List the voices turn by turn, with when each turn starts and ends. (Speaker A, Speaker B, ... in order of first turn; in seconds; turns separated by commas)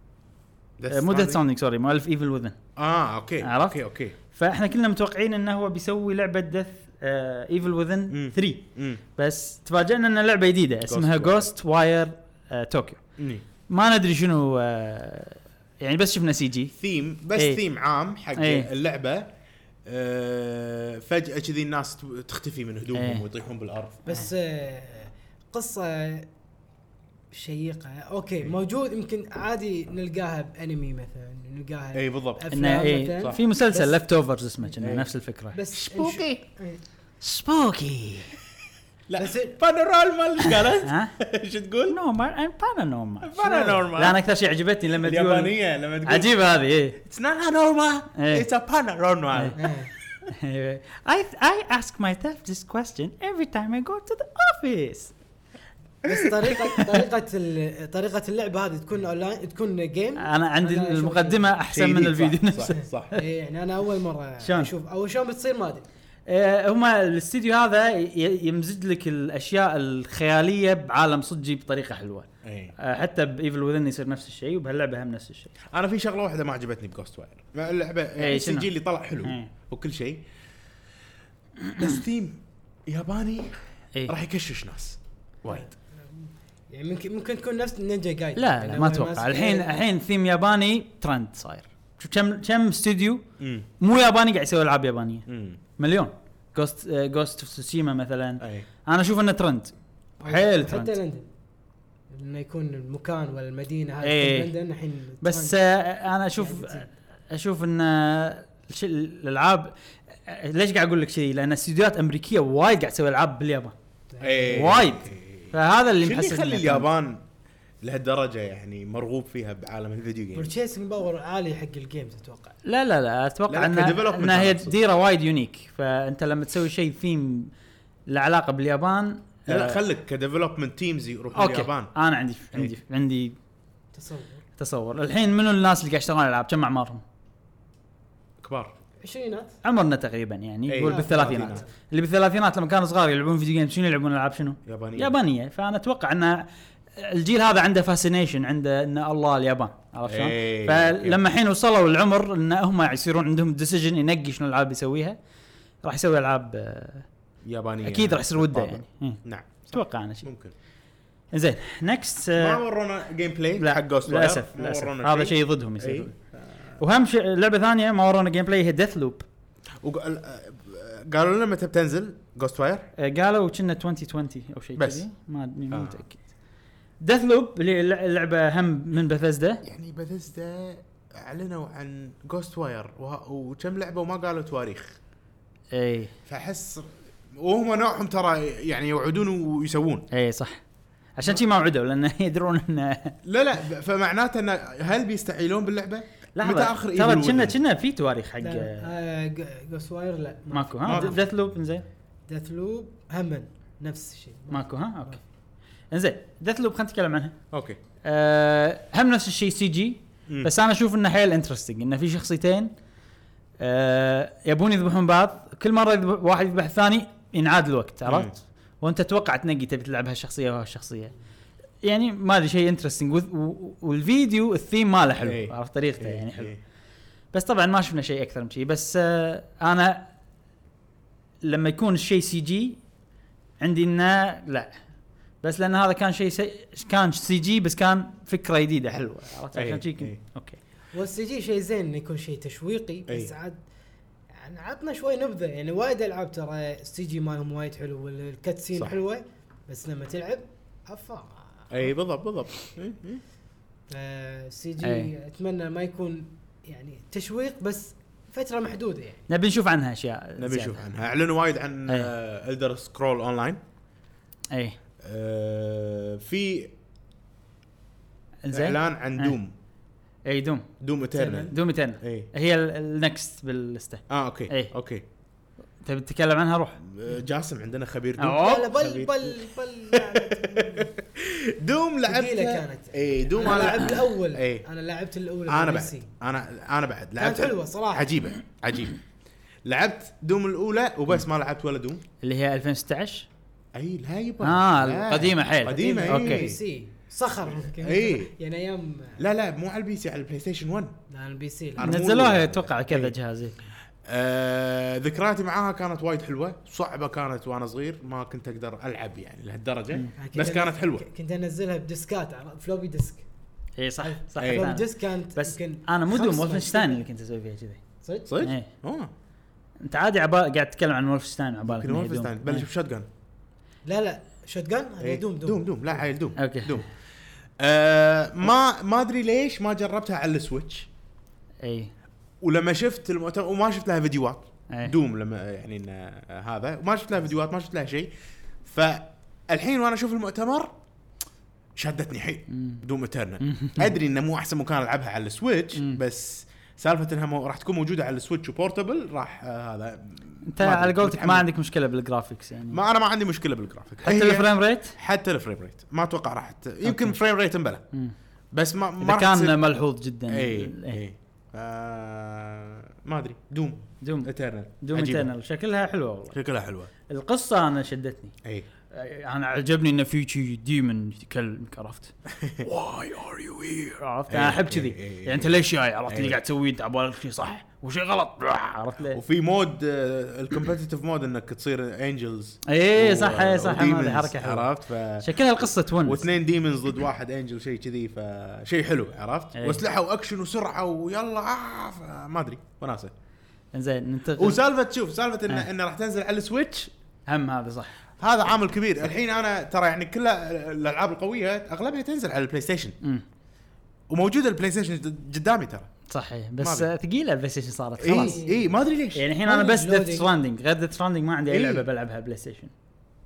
Speaker A: 0.8-1.4, Speaker B: 0.9-2.6, Speaker A: 2.8-4.1, Speaker B: 3.4-3.8, Speaker B: 4.3-8.6, Speaker A: 8.1-9.0, Speaker B: 9.2-13.0, Speaker A: 10.9-11.5, Speaker A: 13.2-13.4, Speaker B: 13.7-16.7, Speaker A: 16.7-19.3, Speaker B: 18.4-18.7, Speaker A: 19.9-24.0, Speaker B: 22.9-23.2, Speaker C: 24.1-26.3, Speaker C: 27.3-34.0, Speaker A: 31.9-32.5, Speaker B: 32.5-35.6, Speaker A: 34.8-35.1, Speaker C: 35.5-36.8, Speaker A: 35.7-36.4, Speaker B: 37.2-38.3, Speaker A: 39.1-42.0, Speaker C: 39.2-39.6, Speaker B: 40.5-41.1, Speaker B: 41.9-45.5, Speaker A: 43.2-44.2, Speaker A: 45.0-46.3, Speaker B: 46.0-47.0, Speaker A: 47.0-49.6, Speaker B: 48.1-48.5, Speaker C: 49.5-49.9, Speaker B: 50.3-55.1, Speaker C: 56.0-61.5, Speaker B: 60.2-62.8, Speaker A: 61.7-63.2, Speaker C: 63.1-65.8, Speaker B: 64.4-64.7, Speaker B: 66.3-75.5, Speaker A: 72.4-72.7, Speaker A: 75.7-80.2, Speaker B: 78.2-79.5, Speaker B: 81.6-81.9, Speaker A: 81.8-83.5, Speaker A: 84.1-85.7, Speaker C: 86.7-89.7, Speaker B: 88.3-93.2, Speaker A: 93.4-93.7, Speaker B: 93.8-95.2, Speaker A: 95.3-95.6, Speaker B: 95.8-99.7, Speaker A: 98.4-98.7, Speaker C: 100.2-101.3, Speaker B: 100.2-101.0, Speaker C: 102.1-105.6, Speaker B: 104.0-104.5, Speaker B: 105.2-109.7, Speaker C: 106.4-106.9, Speaker B: 110.2-113.7, Speaker C: 114.1-114.8, Speaker A: 114.2-117.2, Speaker B: 114.5-116.9, Speaker A: 117.8-120.5, Speaker C: 120.3-122.5, Speaker B: 122.6-127.5, Speaker A: 123.5-124.8, Speaker B: 128.1-129.8, Speaker A: 129.5-131.9, Speaker B: 131.3-133.3, Speaker C: 133.9-134.4, Speaker B: 134.6-137.0, Speaker A: 138.4-138.7, Speaker C: 139.0-139.6, Speaker B: 139.6-155.2, Speaker A: 140.7-141.6, Speaker C: 140.8-141.7, Speaker A: 144.7-145.1, Speaker A: 150.1-151.2, Speaker B: 155.8-157.1, Speaker A: 157.4-160.5, Speaker B: 157.8-160.3, Speaker B: 161.3-162.6, Speaker A: 162.4-166.8, Speaker B: 163.6-166.1, Speaker B: 166.8-169.2, Speaker A: 169.8-172.9, Speaker B: 173.0-176.2, Speaker A: 174.8-175.0, Speaker A: 175.7-176.0, Speaker B: 177.0-179.6, Speaker A: 179.6-185.0, Speaker B: 185.7-186.1, Speaker A: 186.3-190.1, Speaker B: 190.1-190.6, Speaker B: 191.2-193.2, Speaker A: 193.2-197.6, Speaker B: 196.3-198.9, Speaker C: 198.4-201.2, Speaker B: 200.5-201.8, Speaker A: 200.8-201.2, Speaker C: 202.3-205.2, Speaker B: 204.5-205.2, Speaker B: 205.9-207.3, Speaker A: 207.5-207.8, Speaker B: 208.0-212.7, Speaker B: 213.6-221.1, Speaker A: 218.1-218.3, Speaker B: 221.8-226.5, Speaker A: 225.2-226.6, Speaker B: 227.3-230.1, Speaker B: 231.4-232.8, Speaker B: 233.6-234.7, Speaker B: 235.4-240.6, Speaker A: 239.5-240.2, Speaker C: 240.9-243.6, Speaker C: 244.3-251.8, Speaker A: 251.7-253.2, Speaker C: 253.9-259.3, Speaker B: 254.8-255.1, Speaker B: 259.3-260.8, Speaker A: 260.4-263.6, Speaker B: 264.5-264.8, Speaker A: 265.0-266.7, Speaker B: 268.4-269.3, Speaker A: 268.5-269.5, Speaker B: 270.2-270.7, Speaker A: 270.8-272.3, Speaker C: 271.1-271.5, Speaker B: 271.5-274.7, Speaker A: 274.1-275.0, Speaker B: 275.8-276.8, Speaker A: 276.8-279.4, Speaker B: 278.2-278.7, Speaker C: 278.3-280.9, Speaker A: 279.9-284.6, Speaker C: 282.1-286.1, Speaker A: 285.5-289.0, Speaker C: 287.2-288.2, Speaker A: 289.6-292.0, Speaker B: 292.2-293.3, Speaker A: 293.7-296.6, Speaker B: 294.4-296.5, Speaker C: 295.6-299.2, Speaker A: 297.5-298.3, Speaker A: 299.2-300.9, Speaker C: 301.1-301.9, Speaker A: 301.8-303.1, Speaker B: 301.8-303.6, Speaker A: 304.1-311.0, Speaker C: 310.1-313.2, Speaker B: 313.8-317.8, Speaker C: 314.0-317.0, Speaker A: 314.4-314.7, Speaker C: 318.0-318.3, Speaker A: 318.3-319.1, Speaker B: 318.4-318.7, Speaker B: 319.8-322.7, Speaker A: 321.6-323.1, Speaker C: 323.8-325.8, Speaker A: 325.0-326.9, Speaker B: 326.4-326.8, Speaker A: 327.6-330.9, Speaker B: 331.6-331.9, Speaker A: 332.4-338.1, Speaker A: 338.6-340.7, Speaker A: 341.8-351.5, Speaker B: 342.5-342.8, Speaker B: 343.4-343.9, Speaker B: 345.7-346.0, Speaker B: 350.4-352.8, Speaker A: 352.7-357.8, Speaker B: 354.0-354.9, Speaker B: 356.8-357.2, Speaker A: 358.5-359.6, Speaker B: 359.0-361.0, Speaker A: 360.3-365.3, Speaker B: 364.0-366.4, Speaker A: 366.3-366.9, Speaker B: 367.1-368.3, Speaker B: 368.9-372.1, Speaker A: 372.4-375.6, Speaker B: 373.9-379.2, Speaker A: 376.1-376.4, Speaker A: 379.1-385.3, Speaker B: 382.6-384.7, Speaker B: 385.2-386.3, Speaker A: 386.0-393.1, Speaker B: 389.5-389.8, Speaker B: 393.7-394.6, Speaker A: 394.4-396.9, Speaker B: 397.3-398.0, Speaker A: 398.2-403.0, Speaker A: 404.1-405.9, Speaker B: 406.1-408.4, Speaker A: 406.6-406.9, Speaker A: 408.0-409.2, Speaker C: 408.1-408.7, Speaker B: 409.1-412.7, Speaker C: 409.4-410.3, Speaker A: 411.5-411.8